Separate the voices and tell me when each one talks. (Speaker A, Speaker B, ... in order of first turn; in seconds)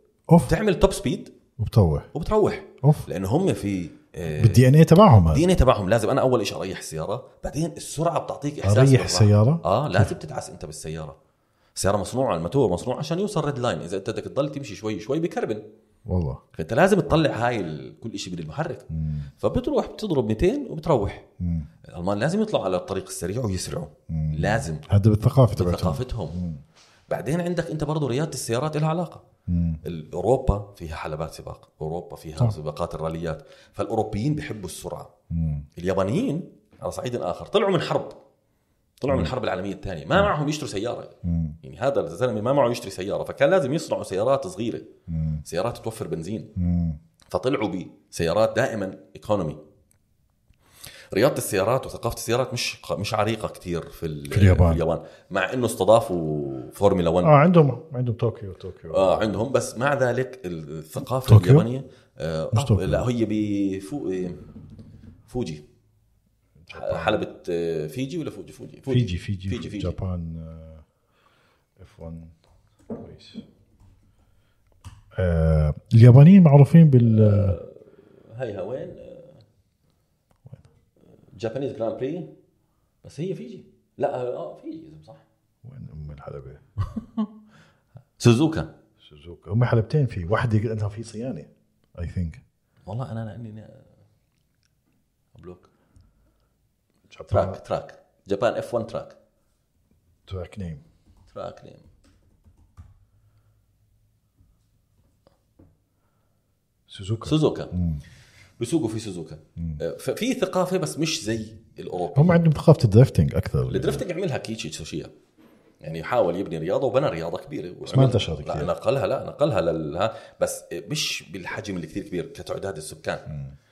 Speaker A: 0.5-1.3, 2.1-4.6, 5.3-11.2, 11.8-15.6, 16.5-18.9, 19.4-21.2, 21.9-24.8, 25.5-26.4, 27.1-29.2, 29.8-35.1, 35.8-38.2, 39.0-44.9, 45.4-46.5, 47.3-49.6, 51.1-57.4, 58.9-64.4, 65.3-65.6, 66.7-70.0, 77.0-79.4, 81.3-82.3, 83.0-85.2, 86.9-87.3, 88.2-88.7, 92.8-93.9, 95.3-95.7, 97.3-99.2, 101.3-101.8, 107.2-107.8, 108.6-112.4, 113.7-115.1, 115.8-123.3
Speaker B: 1.6-2.1, 4.3-5.4, 8.6-10.1, 16.1-16.4, 18.9-19.3, 21.4-21.7, 24.1-26.6, 29.5-29.8, 35.3-35.7, 41.2-41.6, 45.1-45.4, 46.5-47.0, 54.3-54.8, 57.2-59.4, 61.2-61.7, 62.5-63.1, 66.6-67.2, 68.9-70.8, 71.8-72.3, 72.9-73.4, 75.1-77.6, 85.6-86.6, 89.0-92.4, 97.1-97.6, 100.3-100.8, 106.9-108.0, 112.1-114.0, 117.8-118.7